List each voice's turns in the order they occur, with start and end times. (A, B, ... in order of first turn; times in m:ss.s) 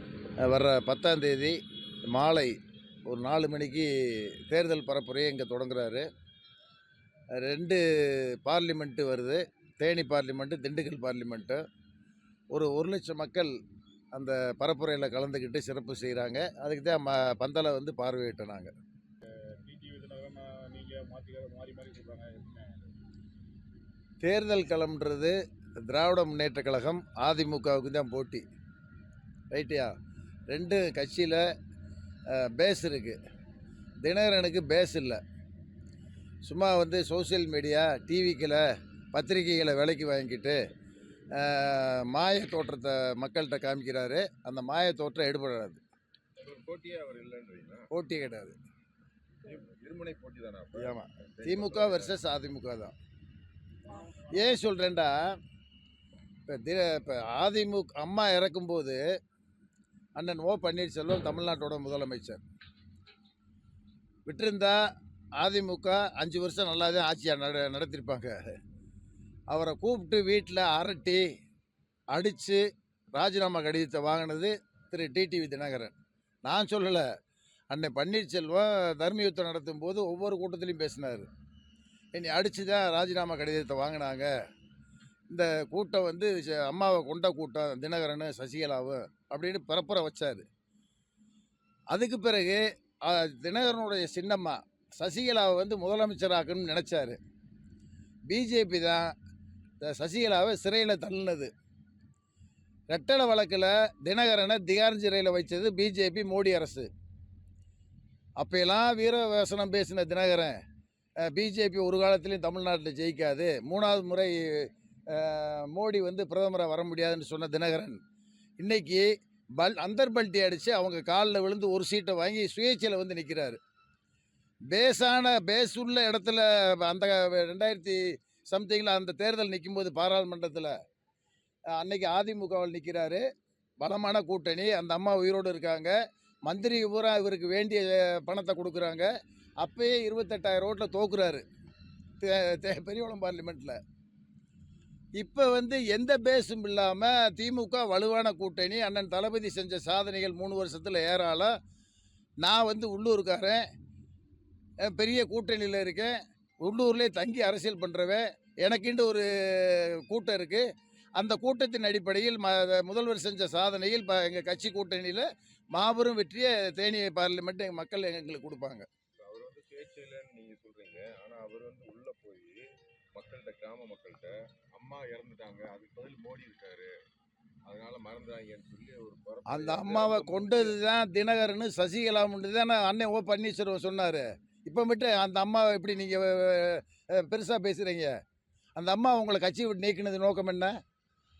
0:00.4-0:01.6 A
0:02.1-0:02.5 A
0:03.1-0:06.0 A
0:07.3-0:11.6 A
0:12.5-0:13.5 A
0:14.1-0:18.7 A
0:19.6-0:22.8 B
0:24.2-0:25.3 A
0:25.9-0:28.4 A
0:29.5-0:29.9 A
0:30.5-0:31.4 A
0:32.3-0:33.2 A
0:34.0-0:35.2 A
0:36.4-0:38.6 A
0:39.1-0:40.6 A
0:41.3-0:45.8 A
0:46.4-0:47.9 C
0:47.9-0:48.5 A
0:49.4-0:52.2 C
0:50.7-0:52.9 A
0:54.3-0:55.2 A
0:56.5-0:59.0 A
1:00.2-1:02.4 A
1:04.2-1:04.8 A
1:05.4-1:08.3 A
1:09.5-1:11.2 A
1:12.1-1:12.6 A
1:13.1-1:15.9 A
1:16.4-1:17.0 A
1:17.7-1:21.3 A
1:22.1-1:24.3 A
1:25.3-1:30.4 A
1:31.9-1:37.2 A
1:38.3-1:39.1 A
1:39.8-1:41.5 A
1:42.9-1:46.9 A
1:48.4-1:50.6 A
1:51.2-1:58.0 A
1:58.6-1:59.1 A
1:59.6-2:03.6 A
2:04.7-2:10.7 A
2:11.8-2:13.2 A
2:13.8-2:15.9 A
2:16.4-2:19.1 A
2:19.6-2:21.4 A
2:22.2-2:23.8 A
2:25.2-2:31.5 A
2:32.4-2:33.6 A
2:34.8-2:40.6 A
2:41.2-2:48.8 A
2:49.2-2:52.6 C
2:53.1-2:56.9 C
2:57.6-3:00.8 C
2:59.5-3:08.1 A
3:08.8-3:10.7 A